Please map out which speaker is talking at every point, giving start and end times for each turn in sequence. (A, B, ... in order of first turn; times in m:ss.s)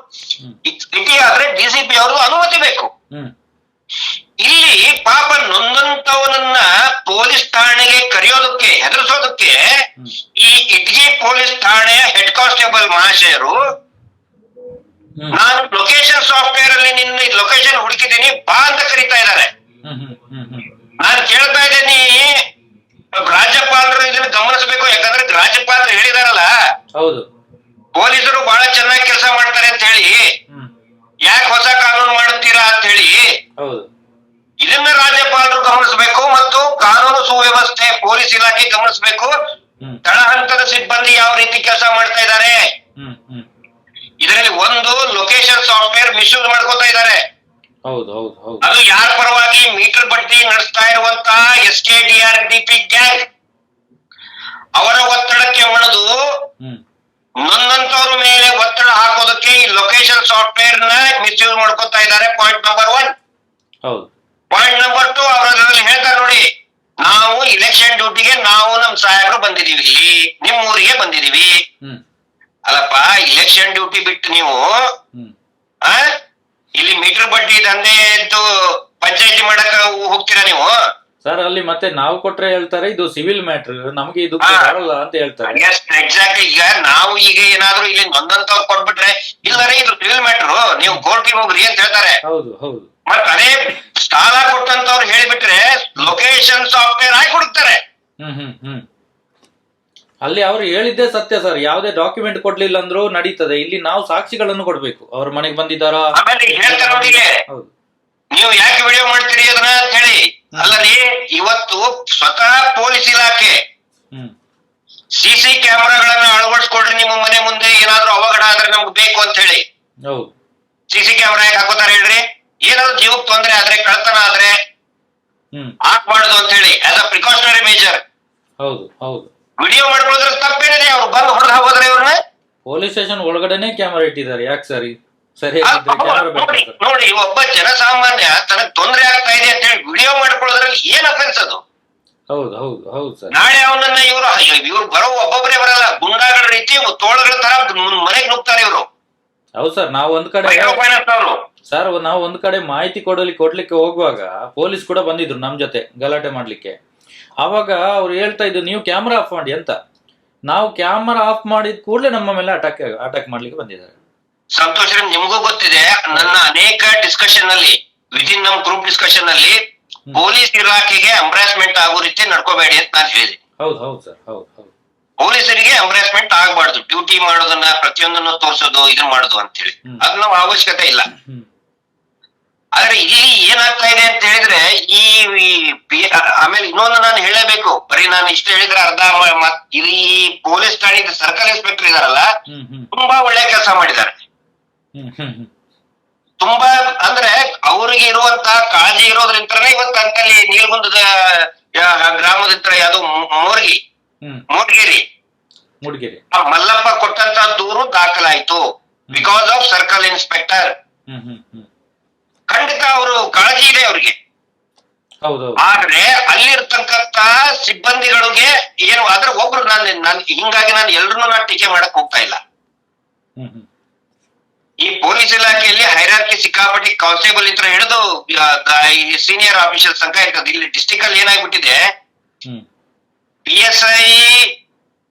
0:00.7-0:02.9 A
0:04.4-0:09.6 A
0:10.4-0:13.6 A
0:15.3-0:19.5 A
0:19.8-0:20.7 B
0:21.0-0:22.3 A
0:23.2-0:26.5 A
0:27.0-0:27.3 B
0:28.0-0:30.2 A
0:31.2-0:33.2 A
0:33.6-0:33.9 B
0:34.6-0:39.3 A
0:40.0-0:42.6 A
0:43.0-0:43.4 B
0:44.2-0:47.2 A
0:47.9-0:48.7 B
0:48.6-0:53.2 A
0:54.8-0:56.1 A
0:57.5-1:03.1 A
1:03.9-1:04.1 B
1:04.5-1:06.4 A
1:07.0-1:11.5 A
1:12.7-1:14.6 A
1:16.8-1:18.4 A
1:19.0-1:20.7 A
1:21.2-1:25.6 B
1:24.4-1:24.7 A
1:25.5-1:32.2 A
1:32.3-1:32.9 B
1:33.1-1:37.8 A
1:38.2-1:38.8 B
1:40.2-1:47.7 B
1:46.2-1:47.3 A
1:48.4-1:53.6 A
1:50.6-1:50.9 B
1:55.2-1:59.6 A
2:00.9-2:04.5 A
2:05.9-2:08.0 A
2:08.6-2:09.3 B
2:09.6-2:12.2 A
2:12.7-2:16.8 B
2:15.6-2:21.6 A
2:22.3-2:23.3 B
2:23.3-2:28.9 A
2:29.6-2:30.8 B
2:30.4-2:31.4 A
2:31.7-2:36.8 B
2:37.4-2:39.8 B
2:40.5-2:44.0 B
2:44.6-2:49.6 A
2:50.1-2:53.4 A
2:53.6-2:54.7 B
2:55.2-3:01.1 A
3:01.1-3:01.4 B
3:02.8-3:12.3 A
3:12.5-3:12.9 B
3:12.9-3:14.1 A
3:15.0-3:15.5 B
3:16.4-3:23.8 A
3:24.5-3:25.0 A
3:25.8-3:26.2 B
3:26.3-3:28.6 A
3:29.1-3:30.7 A
3:31.1-3:31.7 B
3:32.5-3:34.1 A
3:35.2-3:35.8 B
3:35.6-3:42.4 A
3:43.4-3:43.7 B
3:44.8-3:51.8 A
3:53.5-3:54.5 A